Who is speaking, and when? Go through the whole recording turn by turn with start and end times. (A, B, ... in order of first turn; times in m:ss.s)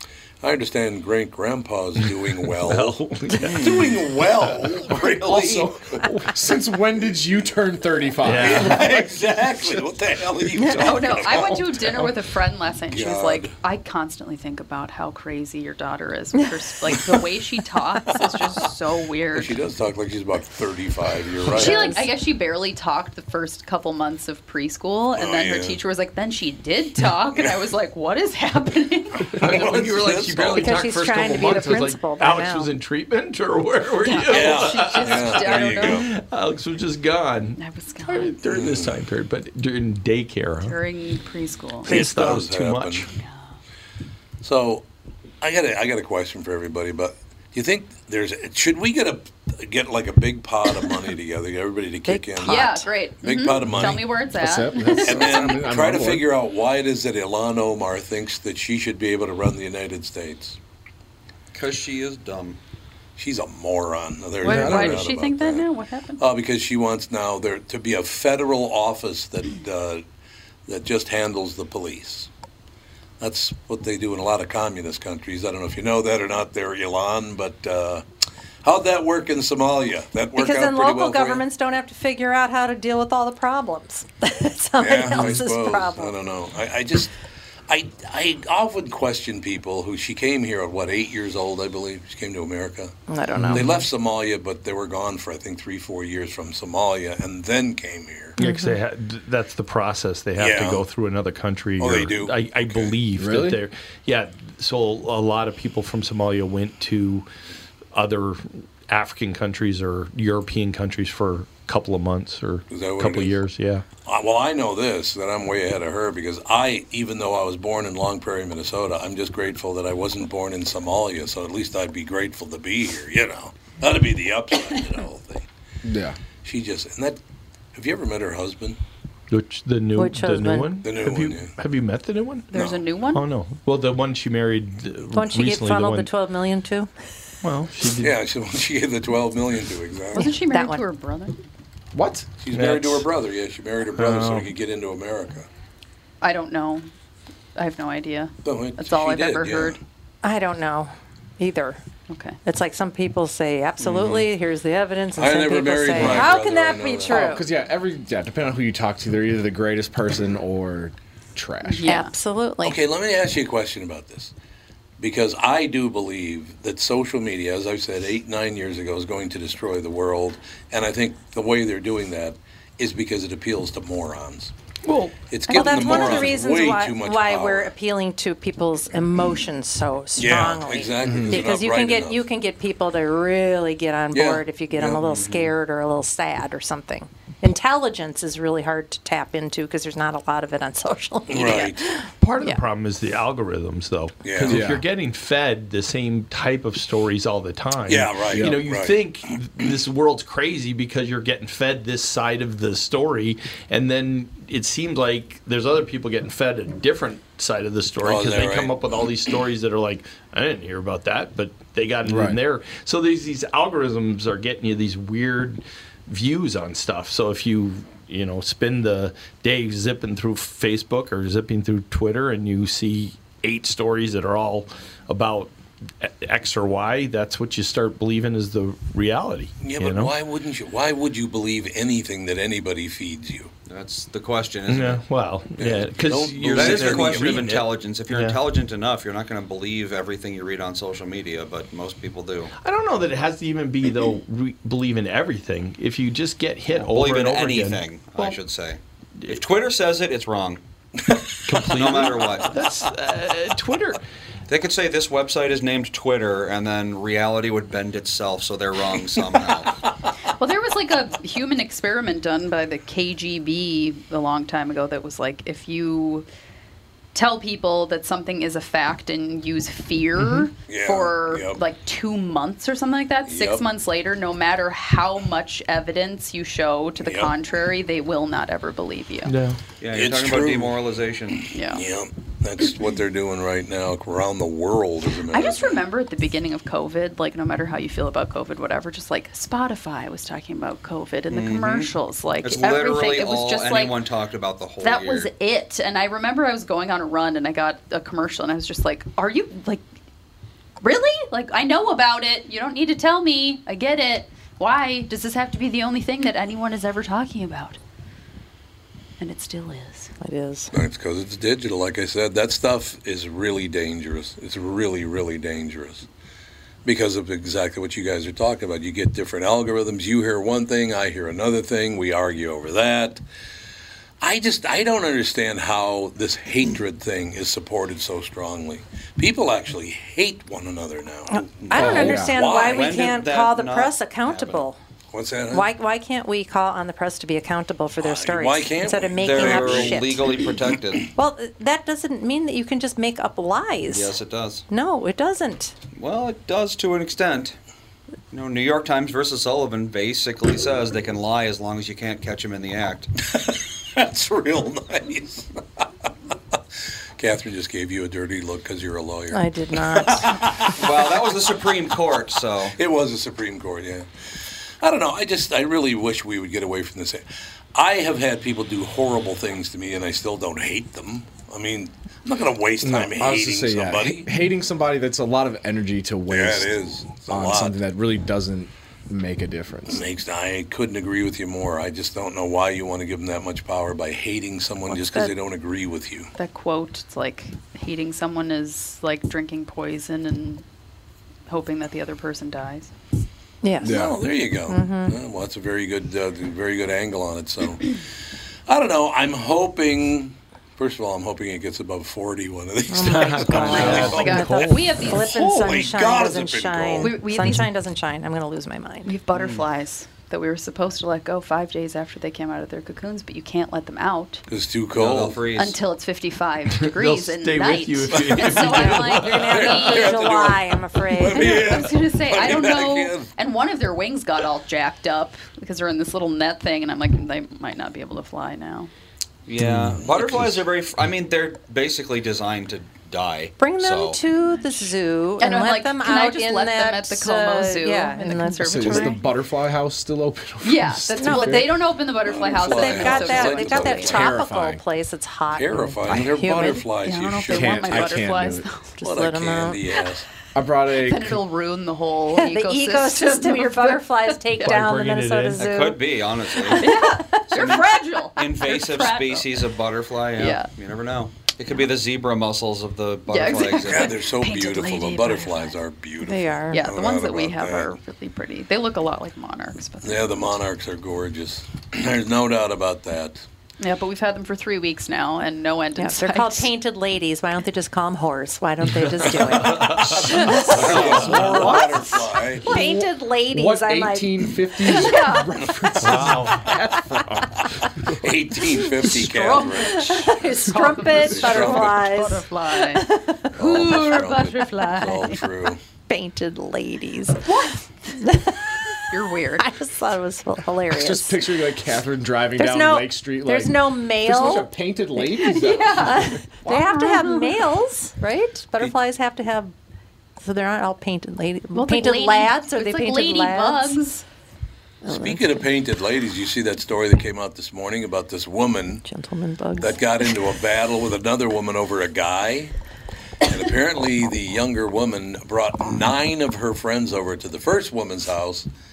0:00.4-0:06.0 A
0:02.6-0:06.3 B
0:03.4-0:03.9 C
0:05.2-0:09.5 D
0:08.2-0:09.0 B
0:08.2-0:12.1 A
0:10.6-0:11.3 E
0:10.8-0:19.6 F
0:12.9-0:13.5 A
0:19.3-0:22.0 A
0:21.5-0:22.1 E
0:21.5-0:29.4 F
0:25.2-0:25.8 A
0:29.3-0:30.8 A
0:29.4-0:40.8 B
0:30.6-0:32.7 E
0:34.0-0:36.1 F
0:34.3-0:36.1 A
0:37.6-0:38.4 F
0:38.5-0:39.0 A
0:40.6-0:41.9 F
0:41.8-0:43.1 B
0:41.9-0:43.1 A
0:44.4-0:44.8 A
0:45.4-0:54.0 A
0:52.1-0:52.9 E
0:52.5-0:55.3 F
0:53.7-0:56.2 D
0:55.0-1:00.6 A
1:01.5-1:02.6 C
1:03.2-1:05.7 A
1:04.4-1:06.2 F
1:04.4-1:05.0 D
1:06.2-1:10.0 A
1:10.7-1:12.3 A
1:13.2-1:18.0 A
1:18.6-1:21.4 A
1:20.4-1:26.1 E
1:24.8-1:27.1 A
1:27.7-1:32.9 A
1:33.1-1:33.7 E
1:33.4-1:33.8 D
1:33.5-1:38.4 A
1:38.4-1:47.3 B
1:38.4-1:38.8 E
1:40.4-1:40.8 A
1:41.8-1:43.0 A
1:43.2-1:43.6 D
1:47.9-1:53.8 B
1:52.7-1:53.4 A
1:54.0-2:05.4 A
2:05.8-2:06.2 D
2:06.4-2:07.2 A
2:07.7-2:08.8 A
2:09.3-2:12.5 B
2:10.0-2:10.8 E
2:10.8-2:11.6 A
2:12.5-2:13.2 F
2:12.5-2:12.8 A
2:13.1-2:16.1 B
2:15.1-2:16.9 E
2:17.4-2:18.2 B
2:18.0-2:20.3 A
2:20.2-2:20.8 E
2:20.2-2:21.4 F
2:21.9-2:22.3 D
2:22.4-2:25.5 A
2:22.5-2:23.1 B
2:24.0-2:24.5 B
2:26.2-2:26.9 F
2:27.6-2:29.8 F
2:28.4-2:29.8 A
2:30.2-2:31.8 E
2:32.1-2:32.4 F
2:32.4-2:37.4 E
2:33.8-2:34.2 C
2:35.2-2:37.4 A
2:35.9-2:36.3 D
2:37.1-2:42.0 D
2:41.6-2:42.1 F
2:41.8-2:42.8 E
2:42.6-2:44.3 A
2:45.0-2:54.5 A
2:54.8-2:55.2 B
2:55.3-2:57.7 A
2:55.5-2:56.2 F
2:55.5-3:12.6 E
3:00.2-3:02.2 A
3:01.0-3:01.5 D
3:04.1-3:05.0 A
3:04.9-3:05.5 C
3:11.3-3:11.8 A
3:11.4-3:11.7 F
3:12.2-3:50.1 B
3:14.2-3:14.7 A
3:14.5-3:14.8 D
3:17.9-3:19.0 A
3:18.3-3:18.6 D
3:28.0-3:29.2 A
3:32.1-3:32.4 D
3:49.6-3:53.5 A
3:53.7-3:55.0 C
3:54.7-3:58.4 B
3:55.6-3:57.7 A
3:56.5-4:02.5 C
4:02.6-4:08.4 B
4:06.7-4:10.6 C
4:11.4-4:14.0 B
4:11.7-4:12.6 C
4:14.5-4:19.7 C
4:20.4-4:26.3 F
4:27.2-4:39.3 F
4:30.2-4:30.5 B
4:30.7-4:31.6 A
4:33.3-4:33.6 A
4:37.0-4:37.3 A
4:39.3-4:39.6 B
4:39.8-4:41.5 C
4:39.9-4:40.8 A
4:41.5-4:41.8 F
4:41.7-4:45.8 A
4:45.3-4:54.0 F
4:51.3-4:55.3 C
4:54.8-4:59.8 F
5:00.8-5:07.8 F
5:09.2-5:10.1 F
5:10.2-5:10.7 E
5:10.7-5:16.1 A
5:16.8-5:23.2 A
5:24.2-5:33.2 A
5:31.3-5:34.8 E
5:31.6-5:34.7 C
5:31.8-5:32.4 D
5:35.1-5:35.7 A
5:35.5-5:40.4 E
5:38.0-5:40.2 A
5:39.2-5:41.1 C
5:41.2-5:44.2 E
5:43.9-5:44.7 C
5:44.7-5:45.8 E
5:45.9-5:47.6 C
5:48.3-5:53.1 C
5:53.3-5:55.5 A
5:57.2-6:00.8 A
5:59.3-6:00.6 E
6:00.7-6:02.8 C
6:02.7-6:04.1 A
6:04.8-6:14.3 A
6:12.8-6:16.7 D
6:16.3-6:17.8 A
6:17.3-6:20.0 D
6:19.9-6:26.3 A
6:26.4-6:30.6 F
6:31.5-6:32.9 F
6:33.6-6:34.0 E
6:33.8-6:34.2 D
6:33.8-6:38.0 A
6:34.7-6:35.2 E
6:38.7-6:44.5 A
6:42.9-6:49.1 E
6:43.0-6:45.2 B
6:43.6-6:45.3 F
6:45.1-6:47.2 A
6:47.0-6:47.7 F
6:49.0-6:54.4 F
6:49.3-6:49.6 C
6:54.5-6:55.4 A
6:55.0-6:55.8 C
6:55.6-7:00.3 F
6:56.8-6:59.7 B
6:58.4-7:01.8 E
6:59.2-7:03.3 A
7:01.3-7:08.9 F
7:09.5-7:14.2 C
7:09.6-7:10.6 D
7:13.6-7:19.2 E
7:15.4-7:19.3 F
7:18.6-7:21.7 D
7:20.6-7:24.2 F
7:21.2-7:21.8 E
7:22.2-7:24.4 A
7:22.4-7:26.8 E
7:23.9-7:24.8 D
7:25.6-7:28.3 A
7:27.0-7:28.8 F
7:27.5-7:28.6 D
7:29.0-7:29.8 E
7:29.0-7:30.3 A
7:30.6-7:31.4 D
7:31.0-7:34.8 F
7:32.3-7:36.0 E
7:34.6-7:35.8 B
7:35.6-7:44.2 C
7:36.6-7:39.7 F
7:36.6-7:38.3 E
7:40.4-7:40.7 F
7:43.3-7:45.8 F
7:43.8-7:48.0 A
7:46.2-7:46.8 E
7:46.7-7:50.6 F
7:50.0-7:53.4 A
7:53.8-7:56.7 F
7:56.0-8:05.2 E
7:58.9-8:00.2 B
7:59.2-8:02.7 A
8:00.8-8:01.2 C
8:01.0-8:01.8 D
8:02.6-8:07.6 D
8:04.8-8:05.5 F
8:06.0-8:06.7 B
8:06.3-8:06.8 A
8:08.2-8:10.4 A
8:09.1-8:14.4 E
8:09.4-8:15.4 F
8:11.0-8:12.0 A
8:13.6-8:15.8 A
8:16.1-8:18.8 E
8:17.4-8:17.8 F
8:19.1-8:19.7 F
8:19.6-8:21.4 E
8:20.9-8:26.8 D
8:22.6-8:24.7 E
8:25.2-8:27.6 F
8:26.0-8:29.7 E
8:30.4-8:34.0 E
8:31.7-8:34.2 F
8:35.0-8:35.4 E
8:35.1-8:39.1 A
8:39.1-8:40.0 E
8:39.8-8:42.7 A
8:43.4-8:48.7 A